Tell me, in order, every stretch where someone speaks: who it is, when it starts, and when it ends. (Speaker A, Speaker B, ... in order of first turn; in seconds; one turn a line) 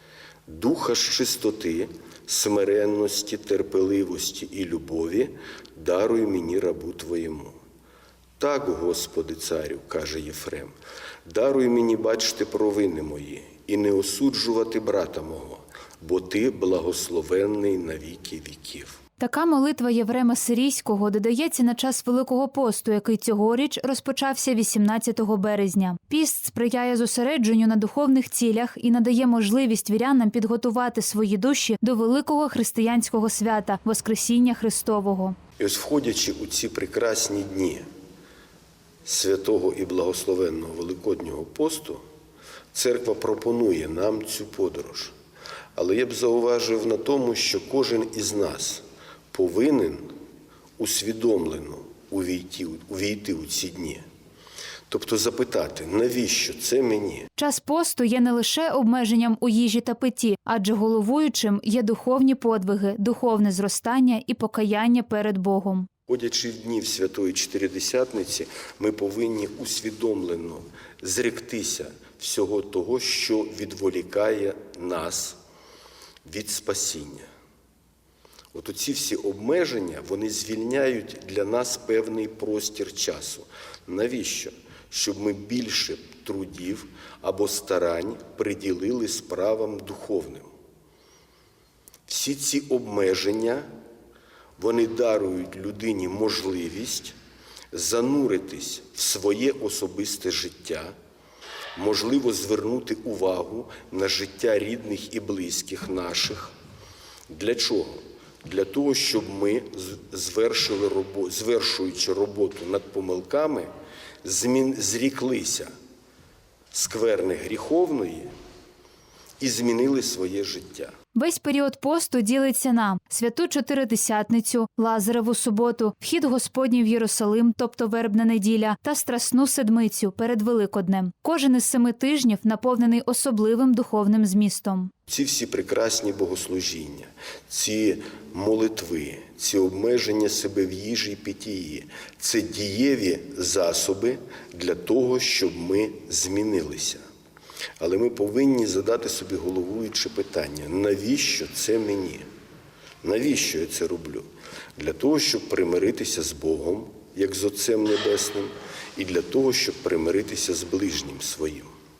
Speaker A: 0.5-7.6
Speaker A: 8.4-10.7
Speaker A: 11.2-19.0
Speaker B: 19.2-35.4
Speaker A: 35.6-37.8
Speaker A: 39.0-42.0
Speaker A: 42.7-45.1
Speaker A: 45.7-50.1
Speaker A: 50.8-54.0
Speaker A: 54.9-57.3
Speaker B: 57.4-65.9
Speaker A: 66.1-75.4
Speaker A: 76.2-77.3
Speaker A: 78.5-90.5
Speaker A: 92.1-93.7
Speaker A: 94.6-97.2
Speaker A: 97.7-100.9
Speaker A: 101.8-106.5
Speaker A: 107.3-113.7
Speaker A: 114.2-115.7
Speaker A: 116.7-118.3
Speaker A: 119.4-120.9
Speaker B: 121.1-134.9
Speaker A: 135.1-147.0
Speaker A: 147.8-152.2
Speaker A: 153.0-161.7